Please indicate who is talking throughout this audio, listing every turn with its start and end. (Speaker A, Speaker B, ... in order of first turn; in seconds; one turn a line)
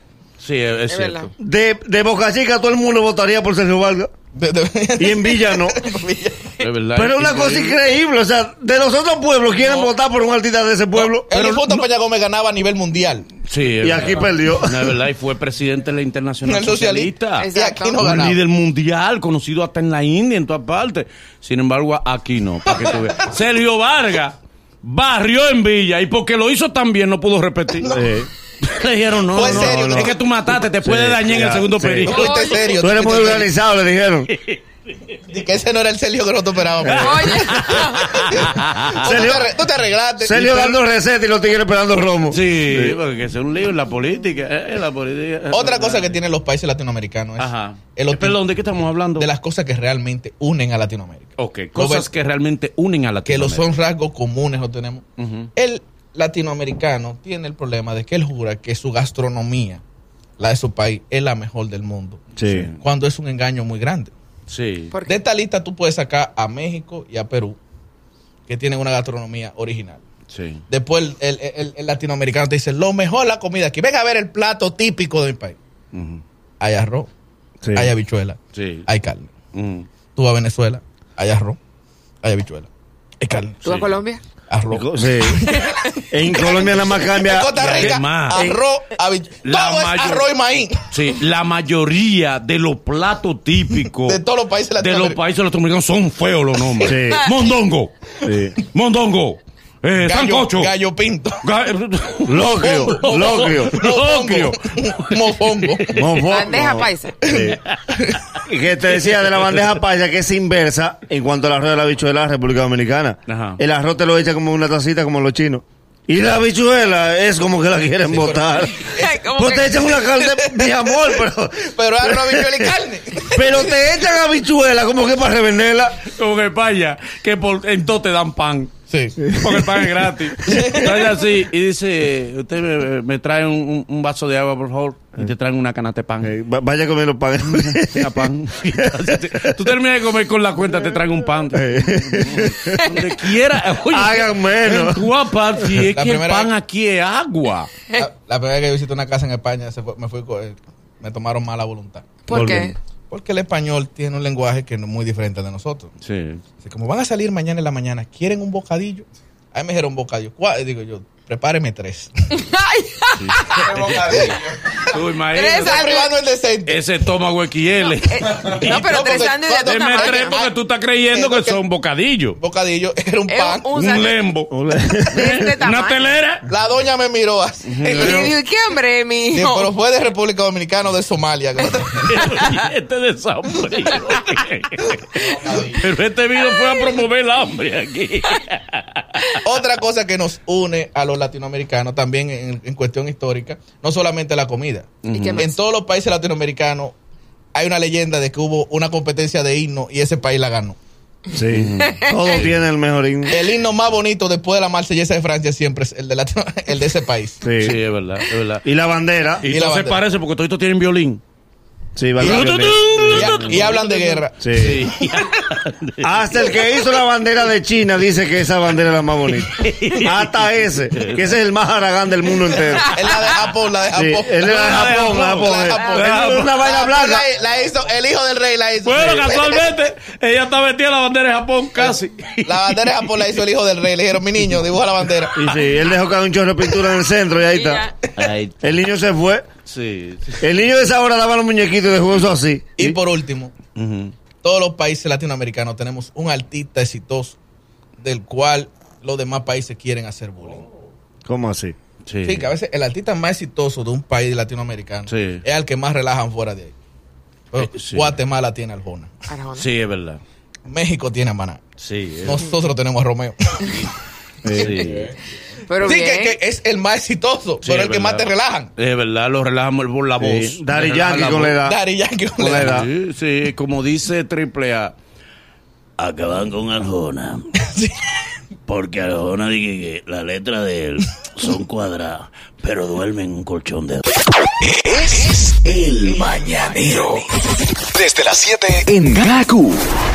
Speaker A: 0.4-1.3
Speaker B: 0.9-1.3
Speaker C: 1.4-4.1
Speaker D: 4.3-6.6
Speaker C: 5.0-5.8
Speaker A: 6.6-7.8
Speaker C: 6.9-11.3
Speaker A: 9.6-9.9
Speaker D: 11.1-13.3
Speaker A: 11.3-11.8
Speaker A: 13.4-28.0
Speaker C: 13.8-15.0
Speaker D: 16.4-18.4
Speaker B: 17.4-18.2
Speaker D: 22.7-23.1
Speaker C: 27.8-28.3
Speaker A: 28.6-32.4
Speaker D: 29.3-30.2
Speaker C: 29.4-30.1
Speaker C: 30.8-32.1
Speaker B: 32.1-32.8
Speaker D: 32.1-33.5
Speaker C: 32.7-34.3
Speaker A: 34.3-34.6
Speaker D: 35.3-37.4
Speaker A: 36.8-39.1
Speaker B: 36.9-38.2
Speaker D: 38.1-40.8
Speaker C: 38.9-39.5
Speaker C: 40.2-43.0
Speaker A: 42.3-46.2
Speaker D: 45.5-48.4
Speaker A: 47.4-49.3
Speaker D: 49.2-52.1
Speaker A: 51.4-53.6
Speaker D: 53.2-55.0
Speaker A: 55.2-55.5
Speaker D: 55.5-59.8
Speaker D: 60.4-62.2
Speaker C: 62.4-62.7
Speaker A: 62.4-62.8
Speaker D: 62.8-64.1
Speaker A: 64.5-64.9
Speaker B: 64.9-65.2
Speaker D: 65.0-67.6
Speaker D: 68.5-70.0
Speaker A: 70.3-70.6
Speaker D: 70.7-75.6
Speaker A: 75.9-76.2
Speaker D: 76.6-77.1
Speaker C: 77.6-77.9
Speaker D: 77.7-79.3
Speaker A: 78.5-78.8
Speaker A: 79.5-79.9
Speaker D: 80.2-81.6
Speaker D: 82.2-82.7
Speaker D: 83.2-83.8
Speaker B: 83.6-84.2
Speaker D: 84.5-90.9
Speaker C: 84.7-85.4
Speaker B: 85.5-86.0
Speaker C: 86.1-88.6
Speaker A: 87.6-88.4
Speaker A: 89.4-90.2
Speaker A: 90.9-94.2
Speaker D: 94.0-95.2
Speaker A: 94.8-97.9
Speaker C: 96.8-97.3
Speaker C: 98.2-98.5
Speaker A: 98.6-100.7
Speaker D: 100.0-101.4
Speaker A: 101.4-106.1
Speaker C: 102.3-103.8
Speaker D: 102.6-106.0
Speaker C: 105.9-107.6
Speaker B: 106.2-107.2
Speaker D: 107.2-108.2
Speaker C: 108.4-122.7
Speaker A: 109.2-109.6
Speaker A: 113.3-113.6
Speaker A: 118.1-118.4
Speaker D: 118.8-119.2
Speaker B: 119.0-120.0
Speaker D: 120.0-124.1
Speaker C: 123.3-126.0
Speaker A: 126.0-128.7
Speaker D: 128.9-129.2
Speaker C: 129.3-130.0
Speaker A: 129.3-136.3
Speaker D: 130.4-131.2
Speaker C: 136.2-138.3
Speaker A: 137.4-147.7
Speaker C: 141.5-145.1
Speaker D: 145.8-146.5
Speaker D: 147.9-152.2
Speaker B: 152.2-152.7
Speaker C: 152.3-152.7
Speaker D: 153.1-155.9
Speaker A: 156.0-156.4
Speaker D: 156.6-162.1
Speaker B: 162.4-163.7
Speaker A: 163.1-164.3
Speaker D: 163.5-165.0
Speaker A: 164.9-165.8
Speaker B: 165.3-166.2
Speaker D: 165.5-166.8
Speaker A: 166.6-169.1
Speaker B: 167.9-170.4
Speaker D: 168.5-170.5
Speaker A: 169.6-172.4
Speaker D: 171.1-171.6
Speaker D: 172.3-173.7
Speaker B: 173.3-174.2
Speaker A: 173.7-174.5
Speaker C: 174.5-175.5
Speaker B: 175.1-176.1
Speaker A: 175.1-176.4
Speaker D: 176.4-178.3
Speaker A: 177.7-178.3
Speaker B: 177.8-179.7
Speaker D: 179.3-182.2
Speaker A: 182.0-189.4
Speaker B: 182.2-182.6
Speaker D: 185.0-185.8
Speaker B: 186.7-187.0
Speaker D: 189.4-196.9
Speaker A: 195.0-195.5
Speaker B: 195.1-195.6
Speaker D: 197.5-200.8
Speaker C: 201.3-203.3
Speaker A: 201.5-202.6
Speaker B: 201.8-202.3
Speaker D: 203.3-207.4
Speaker C: 207.4-207.8
Speaker A: 207.6-208.6
Speaker C: 208.6-209.4
Speaker A: 209.4-211.2
Speaker D: 209.4-210.0
Speaker C: 211.9-213.6
Speaker A: 212.2-214.0
Speaker D: 212.2-214.4
Speaker C: 214.4-214.8
Speaker A: 214.5-216.8
Speaker C: 216.0-222.9
Speaker A: 219.3-221.3
Speaker D: 222.8-229.7
Speaker B: 222.8-223.4
Speaker C: 223.9-227.3
Speaker A: 224.4-226.6
Speaker A: 228.8-233.1
Speaker D: 231.8-235.3
Speaker C: 235.3-237.8
Speaker B: 237.5-237.9
Speaker A: 238.2-238.7
Speaker C: 238.6-239.4
Speaker A: 239.7-240.4
Speaker C: 240.4-243.0
Speaker D: 242.8-243.5
Speaker A: 243.8-244.1
Speaker D: 244.4-247.4
Speaker D: 248.0-250.6
Speaker C: 251.2-251.8
Speaker A: 252.1-252.5
Speaker D: 252.2-256.7
Speaker A: 255.1-255.4
Speaker D: 257.5-259.1
Speaker A: 257.5-258.1
Speaker B: 259.3-259.7
Speaker A: 259.5-260.2
Speaker D: 260.7-261.6
Speaker A: 261.8-262.5
Speaker D: 262.2-263.7
Speaker C: 264.4-265.1
Speaker A: 264.5-265.1
Speaker B: 265.6-266.4
Speaker D: 265.8-268.7
Speaker A: 267.6-271.6
Speaker C: 270.2-271.8
Speaker D: 271.6-272.8
Speaker C: 272.4-272.9
Speaker A: 272.4-274.9
Speaker A: 276.0-277.5
Speaker D: 277.6-277.9
Speaker A: 278.7-284.0
Speaker E: 284.8-287.2
Speaker E: 287.9-289.8